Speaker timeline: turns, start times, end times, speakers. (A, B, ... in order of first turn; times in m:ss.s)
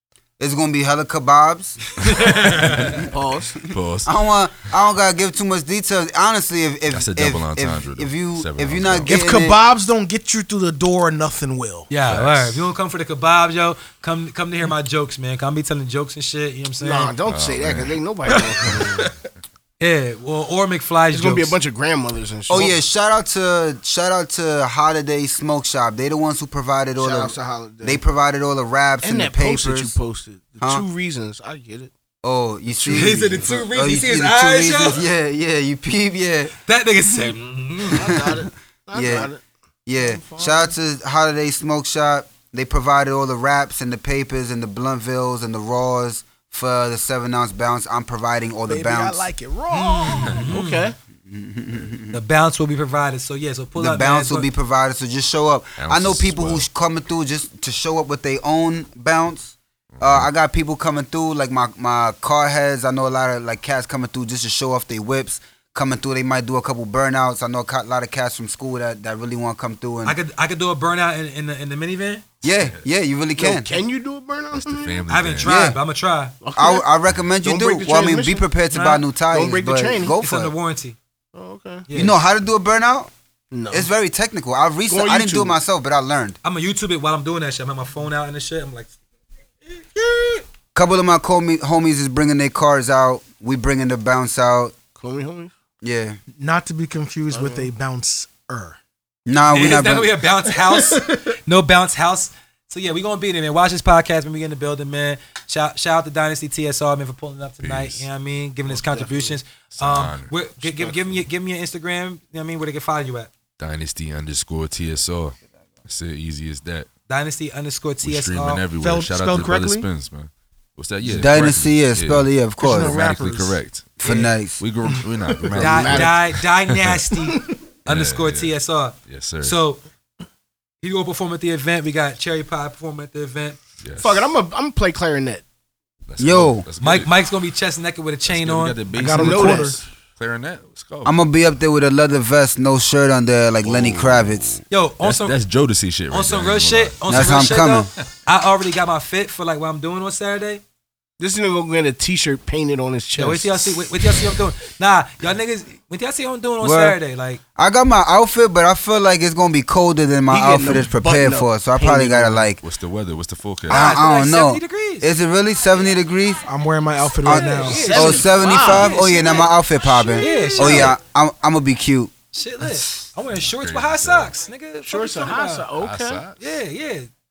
0:00.4-0:02.0 A
0:02.0-0:03.0 B
0:02.0-0:03.1 C
0:03.0-0:03.6 D
0:03.6-0:04.2 C
0:04.0-0:09.6 A
0:06.9-0:09.2 C
0:09.1-0:11.9 E
0:11.9-0:17.2 B
0:12.1-0:12.7 C
0:16.8-0:19.1 D
0:17.3-0:18.0 C
0:19.8-0:21.6 B
0:21.1-0:22.8 D
0:22.5-0:30.0 A
0:27.0-0:28.0 D
0:29.0-0:31.9 D
0:32.2-0:36.5 A
0:32.7-0:33.5 D
0:32.9-0:35.0 B
0:36.7-0:38.2 B
0:37.9-0:39.4 D
0:38.1-0:39.3 A
0:39.9-0:49.3 A
0:40.0-0:40.8 E
0:48.7-0:50.4 E
0:49.7-0:50.9 B
0:50.2-0:50.5 C
0:50.5-0:51.0 D
0:51.3-0:52.2 A
0:52.1-0:54.5 B
0:53.8-1:10.2 A
0:55.8-0:56.7 C
1:00.0-1:00.3 C
1:10.0-1:12.2 B
1:12.4-1:13.7 A
1:13.4-1:15.0 D
1:14.5-1:15.6 C
1:15.1-1:16.3 B
1:15.4-1:15.8 A
1:16.4-1:16.9 D
1:16.6-1:20.5 A
1:17.4-1:18.5 D
1:18.7-1:19.0 B
1:19.3-1:20.2 D
1:20.2-1:21.0 B
1:21.3-1:21.9 D
1:21.9-1:22.2 B
1:21.9-1:23.1 A
1:23.5-1:23.9 D
1:23.7-1:26.4 A
1:24.9-1:25.6 D
1:26.4-1:28.9 B
1:29.7-1:30.4 B
1:30.8-1:34.8 A
1:35.0-1:35.5 D
1:35.8-1:36.2 A
1:36.4-1:38.8 E
1:37.3-1:37.7 D
1:39.3-1:40.2 A
1:39.5-1:53.3 B
1:40.4-1:41.3 E
1:47.6-1:48.1 C
1:48.7-1:49.4 D
1:49.7-1:51.2 C
1:53.6-1:56.9 C
1:57.1-1:58.6 B
1:58.0-2:03.9 C
1:58.8-1:59.9 E
2:01.0-2:03.0 A
2:02.6-2:03.6 E
2:04.0-2:04.3 B
2:04.0-2:04.6 A
2:04.6-2:07.0 C
2:05.3-2:05.6 E
2:05.5-2:06.2 D
2:05.6-2:09.8 B
2:07.9-2:08.5 C
2:09.1-2:09.6 C
2:10.8-2:13.6 B
2:13.8-2:14.3 C
2:14.0-2:15.4 D
2:16.1-2:17.1 C
2:16.2-2:16.6 A
2:16.8-2:18.8 B
2:18.3-2:21.2 C
2:18.9-2:19.8 E
2:19.1-2:19.8 D
2:21.0-2:24.6 A
2:23.6-2:27.4 C
2:24.7-2:25.4 B
2:26.1-2:30.6 B
2:27.1-2:27.9 A
2:31.2-2:33.9 D
2:33.2-2:37.4 B
2:36.6-2:37.0 A
2:37.6-2:42.6 A
2:40.3-2:42.5 D
2:42.6-2:43.9 C
2:43.7-2:46.5 A
2:43.7-2:45.1 B
2:46.5-2:48.2 E
2:47.2-2:52.1 A
2:47.3-2:51.0 B
2:47.4-2:49.1 D
2:50.2-2:50.8 D
2:52.3-2:55.7 B
2:53.4-2:54.3 C
2:54.8-2:56.3 D
2:55.8-2:56.4 C
2:56.4-2:57.1 B